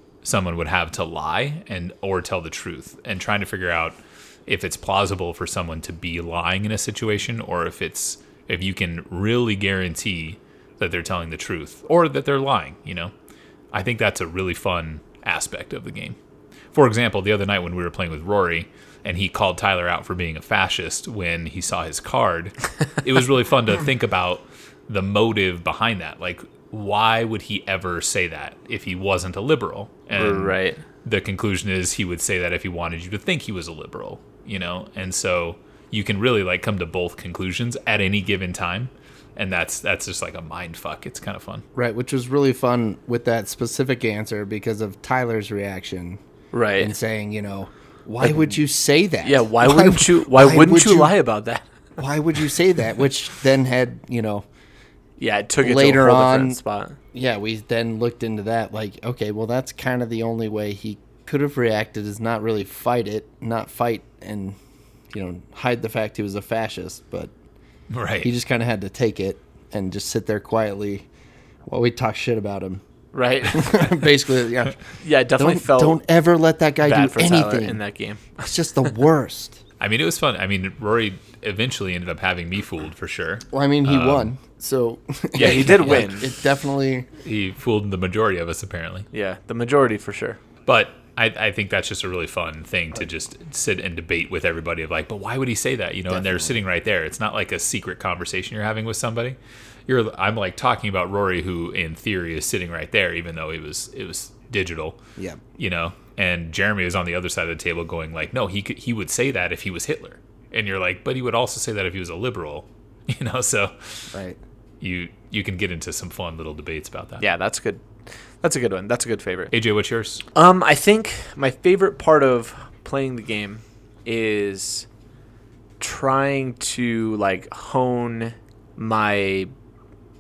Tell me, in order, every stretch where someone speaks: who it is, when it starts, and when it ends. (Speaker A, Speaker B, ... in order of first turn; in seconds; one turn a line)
Speaker A: 0.2-13.1
Speaker A: 13.7-16.2
Speaker A: 16.7-41.6
Speaker B: 30.1-30.8
Speaker C: 41.8-46.2
Speaker B: 46.5-46.9
Speaker C: 46.8-51.1
Speaker B: 49.2-51.7
Speaker C: 52.0-54.5
Speaker B: 55.2-57.0
Speaker C: 55.6-56.6
Speaker C: 57.1-64.6
Speaker C: 65.1-67.3
Speaker A: 67.9-68.3
Speaker C: 68.2-71.1
Speaker C: 71.7-72.8
Speaker B: 73.1-73.9
Speaker C: 73.5-74.8
Speaker B: 75.0-76.0
Speaker C: 75.4-77.8
Speaker B: 76.8-78.5
Speaker C: 78.4-79.6
Speaker A: 79.8-84.3
Speaker C: 83.5-87.1
Speaker A: 85.3-86.3
Speaker B: 85.4-86.3
Speaker A: 87.2-89.1
Speaker B: 89.1-90.4
Speaker A: 90.7-105.0
Speaker C: 96.1-96.6
Speaker A: 105.6-114.2
Speaker C: 114.1-114.4
Speaker A: 114.8-117.2
Speaker B: 117.2-119.5
Speaker A: 119.5-120.2
Speaker B: 120.3-124.9
Speaker B: 125.8-129.5